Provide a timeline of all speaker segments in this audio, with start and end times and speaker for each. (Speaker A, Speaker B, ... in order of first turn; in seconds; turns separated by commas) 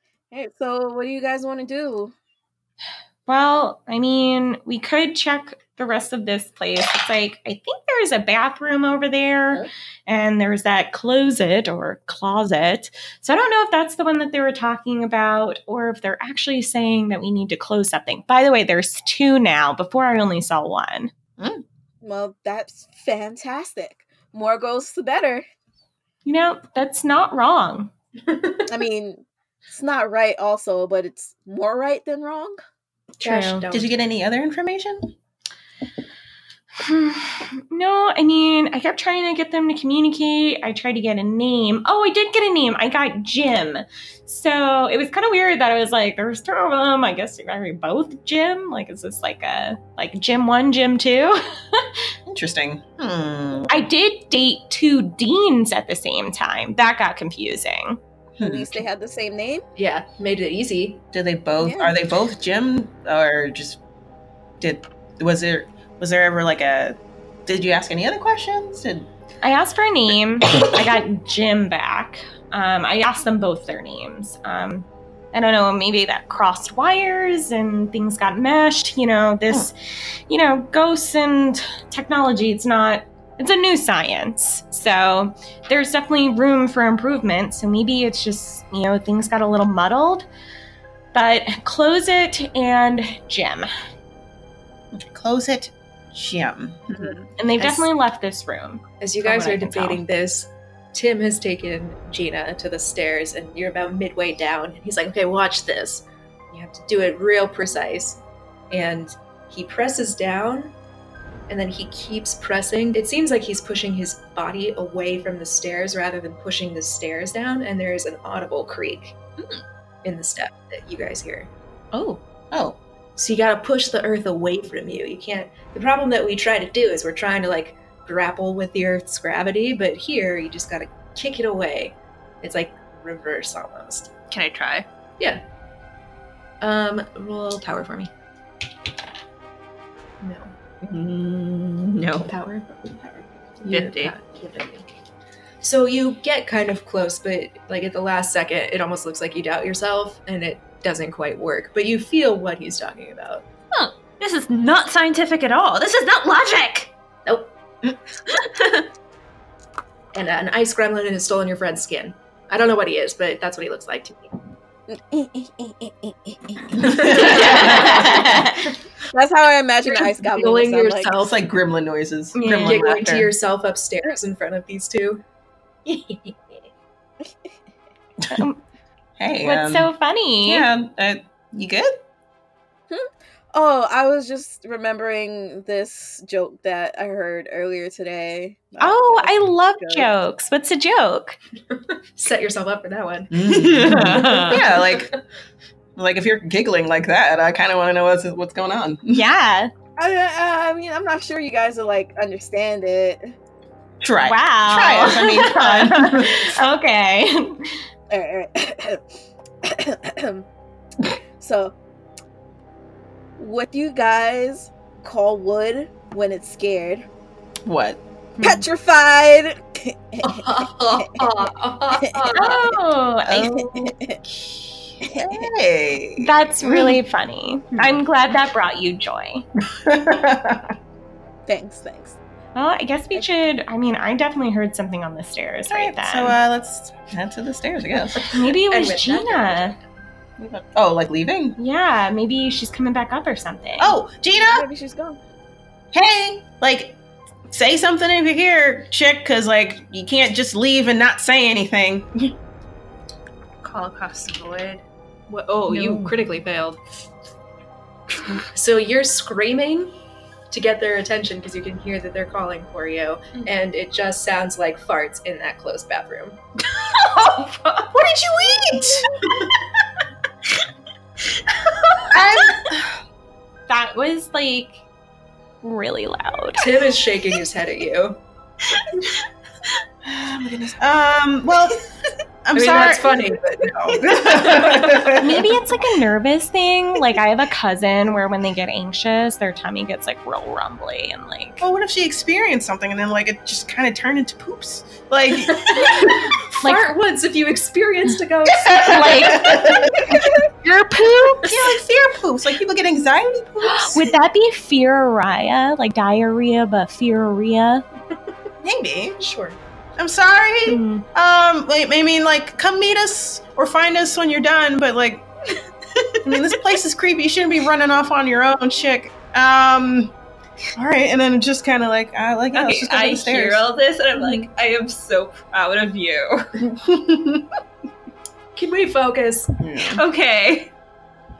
Speaker A: 0.3-2.1, Speaker B: 3.3-21.1, Speaker C: 21.4-21.6, Speaker A: 22.0-25.5, Speaker B: 26.2-27.9, Speaker D: 28.3-28.6, Speaker A: 28.7-32.6, Speaker D: 33.2-33.9, Speaker C: 33.2-35.1, Speaker B: 36.8-51.9, Speaker C: 52.3-53.8, Speaker B: 53.7-58.0, Speaker C: 58.4-58.9, Speaker A: 58.4-59.6, Speaker D: 59.8-61.0, Speaker C: 61.1-63.8, Speaker A: 61.6-61.9, Speaker C: 64.6-69.1, Speaker B: 69.4-79.8, Speaker B: 80.3-90.3, Speaker B: 91.1-93.7, Speaker C: 94.9-97.3, Speaker B: 97.4-100.0, Speaker D: 97.6-97.9, Speaker D: 99.0-110.8, Speaker D: 111.5-119.2, Speaker D: 120.0-121.5, Speaker B: 121.9-122.2, Speaker C: 122.5-122.8, Speaker D: 123.2-134.1, Speaker E: 134.3-134.9, Speaker D: 136.6-138.1, Speaker D: 140.2-140.6, Speaker E: 140.8-142.3, Speaker D: 142.3-144.9, Speaker E: 143.7-144.2, Speaker D: 145.6-153.5, Speaker E: 153.7-156.9, Speaker D: 157.2-157.5, Speaker E: 158.3-158.9, Speaker D: 160.1-164.3, Speaker A: 164.9-167.3, Speaker D: 166.8-168.3, Speaker C: 166.8-168.7, Speaker A: 168.0-168.2, Speaker A: 169.1-171.1, Speaker D: 169.8-171.4, Speaker C: 171.2-173.3, Speaker B: 172.3-172.9, Speaker D: 172.6-175.2, Speaker D: 175.9-176.4, Speaker B: 178.3-178.6, Speaker C: 179.2-179.9, Speaker B: 179.4-180.7, Speaker C: 180.4-181.9, Speaker A: 182.9-190.1, Speaker B: 188.8-191.4, Speaker D: 191.7-195.1, Speaker C: 193.3-195.2, Speaker E: 193.4-194.6, Speaker C: 196.0-199.3, Speaker B: 199.1-199.7, Speaker A: 200.0-203.3, Speaker C: 204.0-206.6, Speaker B: 204.2-207.8, Speaker A: 208.1-209.0, Speaker A: 209.6-210.5, Speaker A: 211.1-211.8, Speaker A: 213.4-217.1, Speaker C: 217.7-218.0, Speaker B: 218.4-218.6, Speaker A: 218.4-221.1, Speaker D: 220.2-222.8, Speaker A: 221.9-222.3, Speaker B: 222.3-223.9, Speaker C: 223.3-223.7, Speaker A: 223.8-224.2, Speaker C: 224.3-227.0, Speaker A: 225.1-225.4, Speaker B: 226.2-229.5, Speaker C: 229.7-230.8, Speaker A: 231.5-232.2, Speaker B: 232.6-236.4, Speaker C: 235.7-238.4, Speaker B: 238.3-239.8, Speaker D: 238.4-239.8, Speaker C: 240.4-241.6, Speaker B: 241.6-244.0, Speaker C: 243.8-244.7, Speaker A: 244.3-245.2, Speaker C: 245.9-247.0, Speaker C: 247.5-252.3, Speaker E: 253.6-254.8, Speaker D: 255.3-256.8, Speaker D: 258.4-260.0, Speaker D: 260.5-266.4, Speaker E: 266.6-267.9, Speaker C: 267.9-269.1, Speaker E: 271.2-272.7, Speaker C: 272.1-273.0, Speaker B: 273.7-274.8, Speaker B: 275.6-276.7, Speaker D: 276.6-278.2, Speaker C: 280.0-281.8, Speaker C: 282.4-285.6, Speaker D: 282.6-285.1, Speaker B: 285.1-291.6, Speaker C: 291.6-296.5, Speaker D: 295.5-300.3, Speaker B: 296.6-296.9, Speaker C: 298.5-304.1, Speaker B: 298.8-301.7, Speaker B: 303.6-307.8, Speaker C: 308.6-309.2, Speaker D: 309.2-309.6, Speaker C: 310.0-315.3, Speaker B: 310.7-311.1, Speaker C: 316.2-320.1, Speaker C: 320.8-323.7, Speaker E: 322.5-326.6, Speaker D: 324.2-324.5, Speaker C: 326.6-327.5, Speaker D: 328.6-329.5, Speaker C: 329.6-330.0, Speaker E: 329.9-330.7